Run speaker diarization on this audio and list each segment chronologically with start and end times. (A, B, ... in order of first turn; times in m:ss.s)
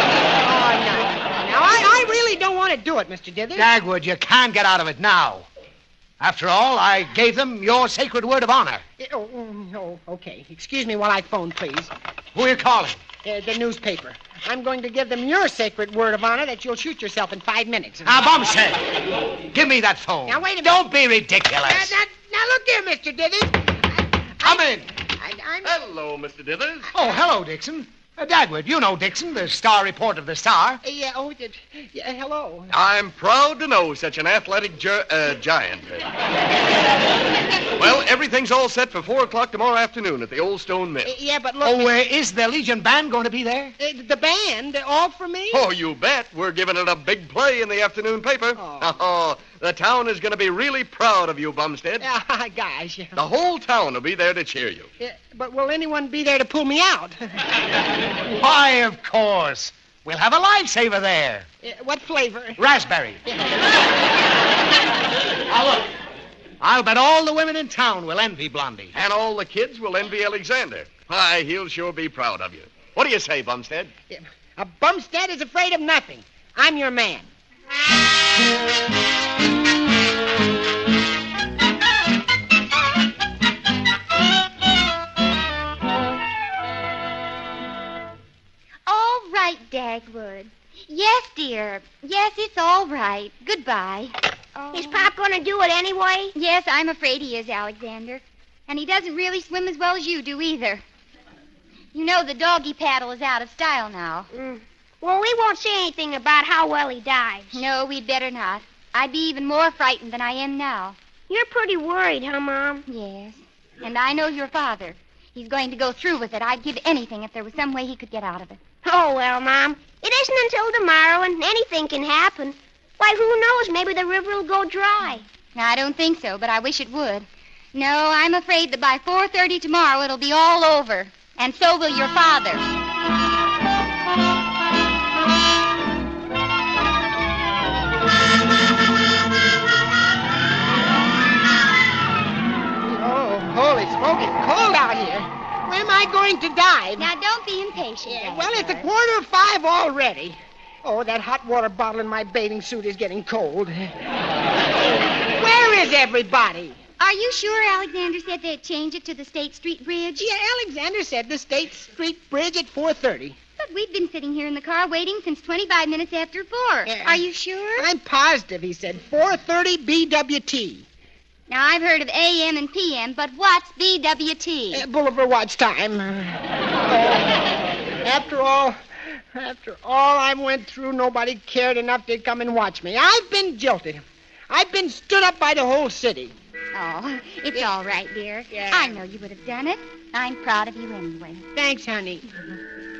0:00.4-0:03.7 A
0:03.6-0:05.5 B
0:06.2-0:08.8 B
0:09.0-0:11.9 A
0:12.3-0:13.0 B
0:13.2-0:18.2 A
0:18.0-0:18.9 B
0:19.5-0:22.0 B
0:20.3-0:20.8 A
0:21.6-0:25.7 A
0:24.4-0:24.9 B
0:25.6-0:26.9 C
0:26.9-0:30.8 B
0:30.8-0:32.7 A
0:32.7-0:36.1 C
0:37.8-0:41.2 C
0:41.1-0:42.0 A
0:41.6-0:43.8 B
0:43.8-0:45.7 A
0:45.5-0:52.1 C
0:48.6-0:48.9 A
0:52.0-0:53.2 A
0:53.2-0:54.9 C
0:55.0-0:57.3 A
0:58.2-1:01.5 B
1:01.6-1:02.6 A
1:02.6-1:03.2 B
1:05.5-1:05.9 B
1:06.6-1:08.9 B
1:08.9-1:13.9 C
1:14.1-1:17.3 A
1:28.9-1:35.1 D
1:34.7-1:36.3 E
1:36.4-1:40.8 D
1:41.9-1:44.3 D
1:44.3-1:47.6 E
1:47.5-1:51.0 D
1:51.3-1:52.8 E
1:52.9-1:58.6 D
1:58.8-2:05.2 E
2:05.6-2:12.6 D
2:22.9-2:27.1 A
2:27.0-2:28.9 D
2:28.0-2:34.0 A
2:35.3-2:36.8 A
2:37.0-2:40.3 D
2:40.2-2:43.4 A
2:43.6-2:47.9 D
2:46.9-2:47.2 A
2:47.8-2:50.9 A
2:51.5-2:54.8 D
2:54.7-2:58.8 A
2:59.3-3:06.4 A
3:06.8-3:11.4 D
3:08.5-3:09.0 A
3:11.6-3:12.3 A